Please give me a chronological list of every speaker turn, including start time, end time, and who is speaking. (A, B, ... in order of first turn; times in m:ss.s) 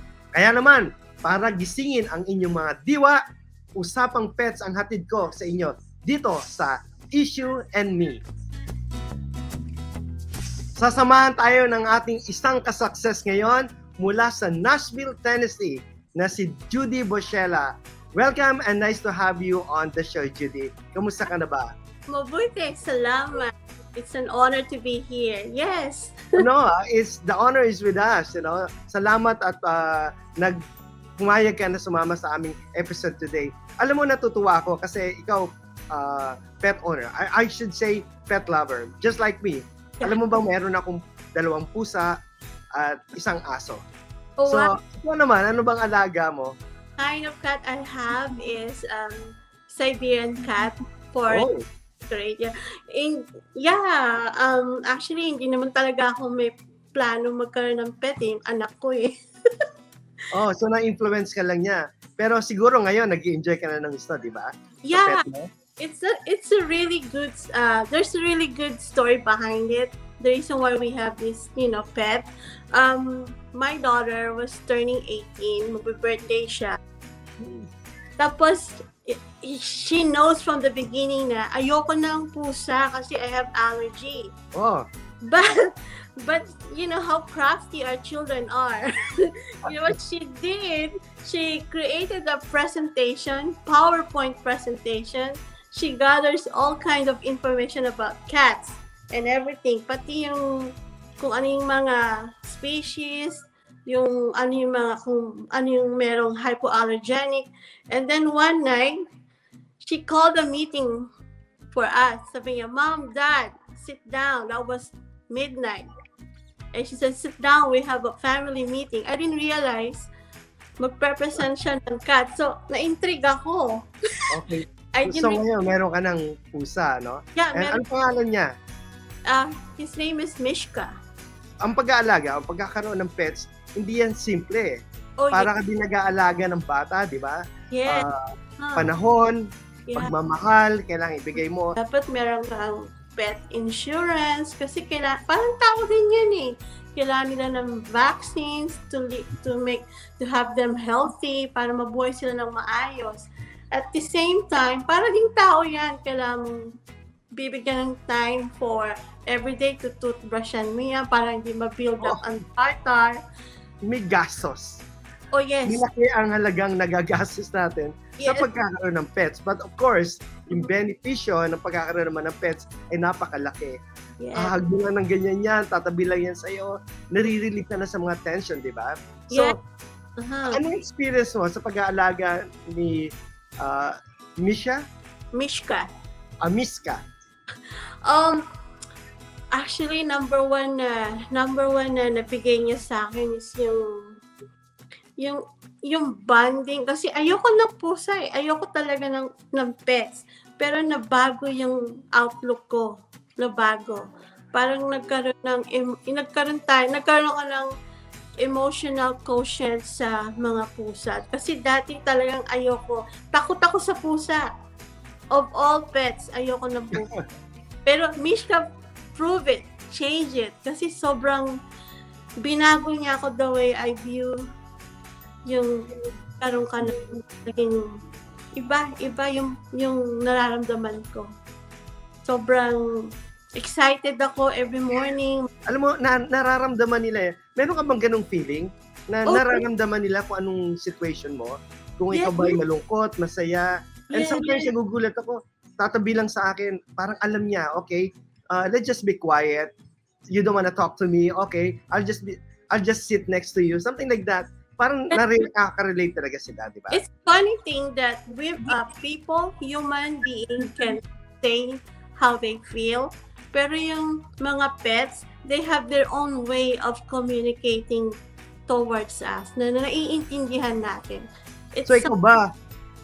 0:00.3-0:03.2 A
0:03.8-0:08.2 A
0:10.8-0:21.7 A
0:22.1-0:26.3 B
0:26.4-0:30.6 A
0:31.2-0:42.1 A
0:42.8-0:43.8 A
0:44.4-0:44.7 B
0:44.5-0:46.5 A
0:47.0-0:51.5 B
0:51.3-0:51.6 A
0:52.1-0:59.1 B
1:00.3-1:05.5 A
1:04.8-1:05.2 B
1:05.8-1:16.8 B
1:17.4-1:17.7 A
1:18.2-1:24.3 B
1:24.5-1:24.8 A
1:25.2-1:49.0 B
1:49.8-1:51.1 B
1:51.7-1:55.9 B
1:56.7-2:00.1 B
2:00.8-2:04.2 B
2:04.3-2:08.5 A
2:04.9-2:05.4 B
2:07.4-2:07.8 B
2:09.3-2:10.9 B
2:11.6-2:14.8 A
2:15.2-2:15.5 B
2:15.3-2:18.2 A
2:17.7-2:18.0 B
2:18.6-2:18.9 B
2:18.8-2:21.8 A
2:21.8-2:36.7 B
2:37.4-2:43.2 B
2:43.8-2:44.8 A
2:45.3-2:45.8 B
2:45.6-2:53.8 A
2:48.2-2:48.5 B
2:54.2-2:54.6 B
2:54.4-2:59.5 A
2:59.3-2:59.6 B
3:00.2-3:00.6 B
3:00.5-3:03.1 A
3:03.6-3:04.8 A
3:05.3-3:05.9 B
3:06.4-3:07.0 A
3:08.0-3:08.4 B
3:09.5-3:14.2 B
3:15.2-3:24.0 B
3:24.5-3:27.7 B
3:28.4-3:34.4 B
3:35.3-3:37.1 B
3:36.9-3:37.2 A
3:37.8-3:41.5 B
3:42.4-3:44.3 B
3:45.5-3:47.8 B
3:48.6-3:51.3 B
3:52.2-3:52.8 B
3:53.6-3:55.5 B
3:55.7-4:09.7 A
3:59.3-3:59.6 B
4:02.1-4:02.6 B
4:04.1-4:04.7 B
4:10.3-4:17.0 A
4:16.9-4:28.1 B
4:28.7-4:32.1 B
4:31.8-4:32.4 A